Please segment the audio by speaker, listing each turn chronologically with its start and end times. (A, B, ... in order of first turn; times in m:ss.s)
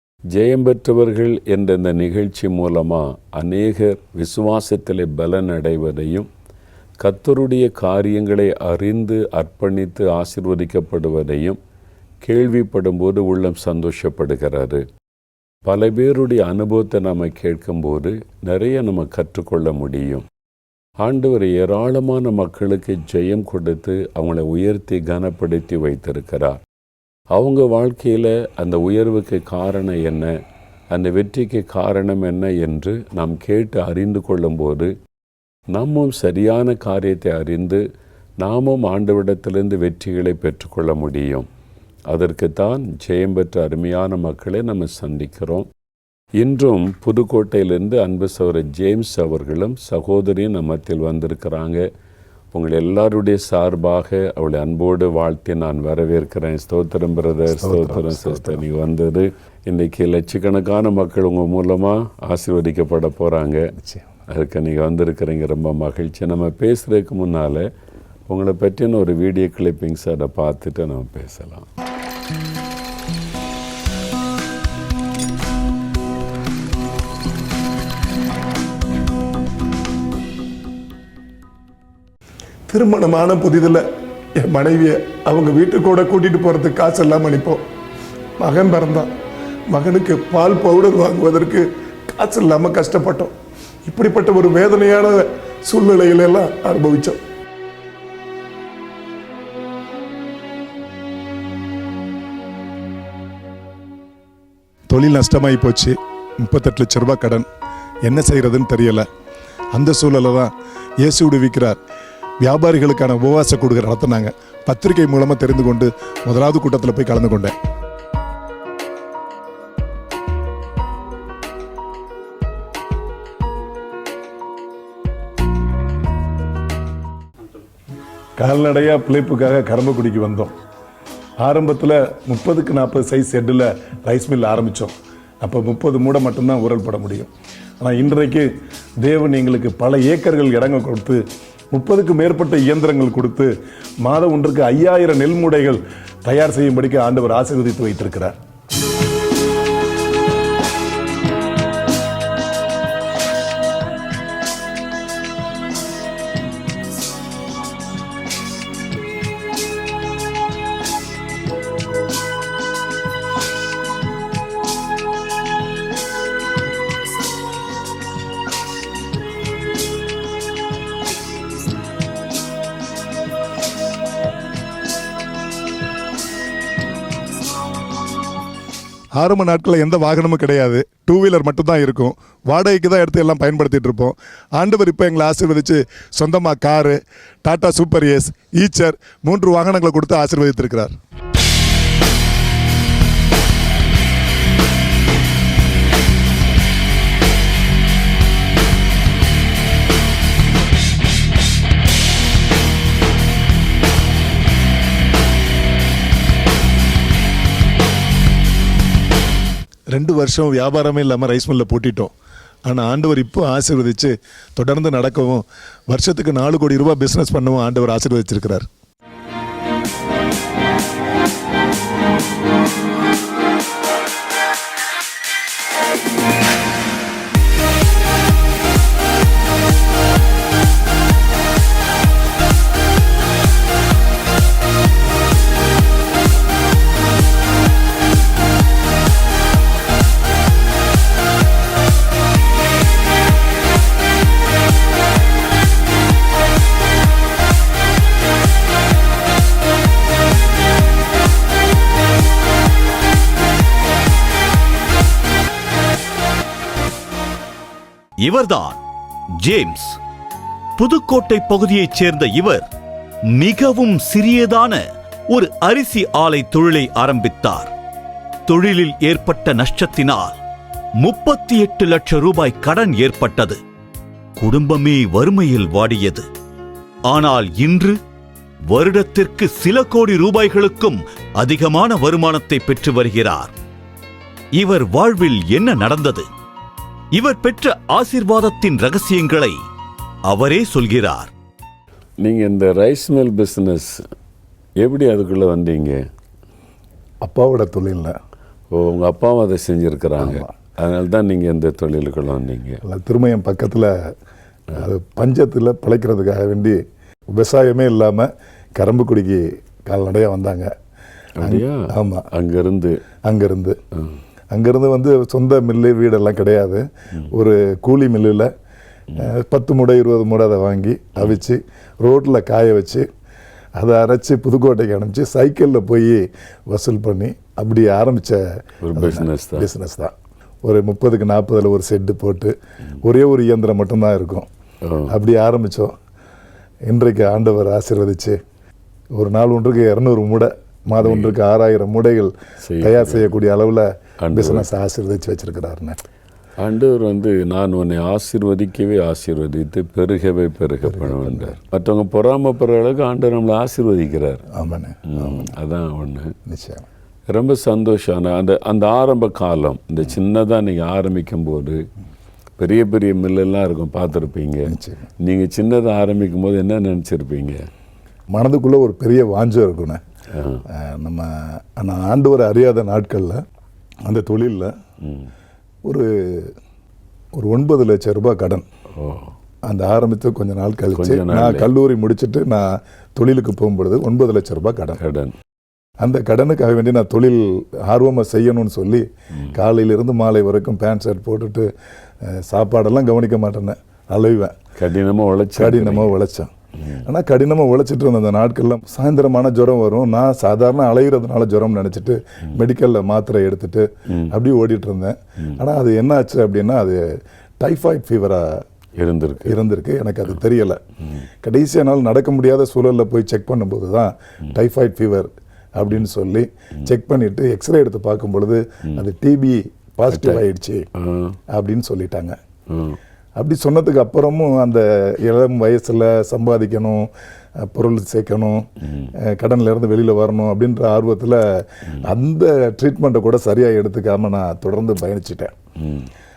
0:00.3-0:06.3 A
0:07.0-0:11.6 A
0:12.2-0:14.8 A
0:15.6-0:20.2 A
0:21.0-0:26.6 A
0:27.3-0:30.3 A
0:30.9-0:34.9 A
0:35.7-0:37.8 A
0:38.4-0:41.5 A
0:42.1-0:45.7 A
0:46.4-0:51.8 A
0:52.5-1:03.7 A
0:57.5-0:58.6 B
1:03.8-1:04.2 B
1:04.3-1:07.7 A
1:08.3-1:11.7 A
1:22.7-1:23.8 B
1:24.4-1:27.6 B
1:28.4-1:29.1 B
1:29.7-1:33.3 B
1:33.9-1:37.2 B
1:44.9-1:47.5 B
1:48.0-1:49.1 B
1:49.7-1:51.8 B
1:52.4-1:57.5 B
2:08.4-2:10.5 B
2:11.4-2:18.5 B
2:19.0-2:23.5 B
2:24.0-2:28.4 B
2:59.2-3:11.0 B
3:29.9-3:32.1 B
3:32.7-3:38.7 B
4:18.2-4:18.8 C
4:19.4-4:20.0 C
4:20.8-4:22.6 C
4:23.3-4:27.7 C
4:28.5-4:30.4 C
4:31.0-4:33.6 C
4:34.4-4:36.3 C
4:37.1-4:38.0 C
4:38.7-4:43.5 C
4:44.6-4:46.3 C
4:47.1-4:49.6 C
4:50.3-4:51.3 C
4:52.2-4:54.0 A
4:54.8-4:56.0 A
4:57.2-4:58.2 B
4:58.7-5:02.8 A
5:00.2-5:00.5 B
5:02.8-5:04.1 B
5:04.7-5:06.8 B
5:07.4-5:10.7 B
5:11.4-5:13.0 A
5:11.4-5:12.3 B
5:13.2-5:13.8 B
5:13.9-5:14.2 A
5:14.5-5:18.5 B
5:19.2-5:23.1 B
5:23.8-5:30.1 B
5:28.8-5:29.7 A
5:30.6-5:34.5 B
5:34.8-5:35.2 A
5:35.1-5:35.9 B
5:36.9-5:38.4 B
5:39.2-5:46.0 B
5:41.0-5:41.4 A
5:42.6-5:43.4 A
5:44.2-5:44.7 A
5:46.6-5:54.4 A
5:50.8-5:51.6 B
5:54.5-5:55.5 B
5:55.1-5:56.3 A
5:56.5-5:56.9 B
5:57.3-6:01.8 A
6:02.6-6:07.6 A
6:04.7-6:05.1 B
6:08.3-6:10.0 B
6:10.3-6:10.6 A
6:10.7-6:13.4 B
6:14.1-6:14.8 B
6:15.0-6:15.3 A
6:15.9-6:16.5 B
6:17.4-6:18.6 B
6:19.0-6:19.3 A
6:19.7-6:25.0 B
6:20.9-6:21.7 A
6:25.0-6:25.4 A
6:26.0-6:31.7 B
6:32.2-6:34.6 B
6:34.8-6:36.2 A
6:35.6-6:36.5 B
6:36.8-6:37.1 A
6:37.1-6:48.6 B
6:44.1-6:44.4 A
6:49.0-6:49.6 A
6:49.4-6:50.8 B
6:51.0-6:51.3 A
6:51.4-7:00.9 B
7:00.1-7:01.4 A
7:01.5-7:02.4 B
7:02.7-7:03.0 A
7:03.4-7:07.1 B
7:07.6-7:08.7 B
7:08.8-7:09.1 A
7:09.2-7:15.5 B
7:15.8-7:16.1 A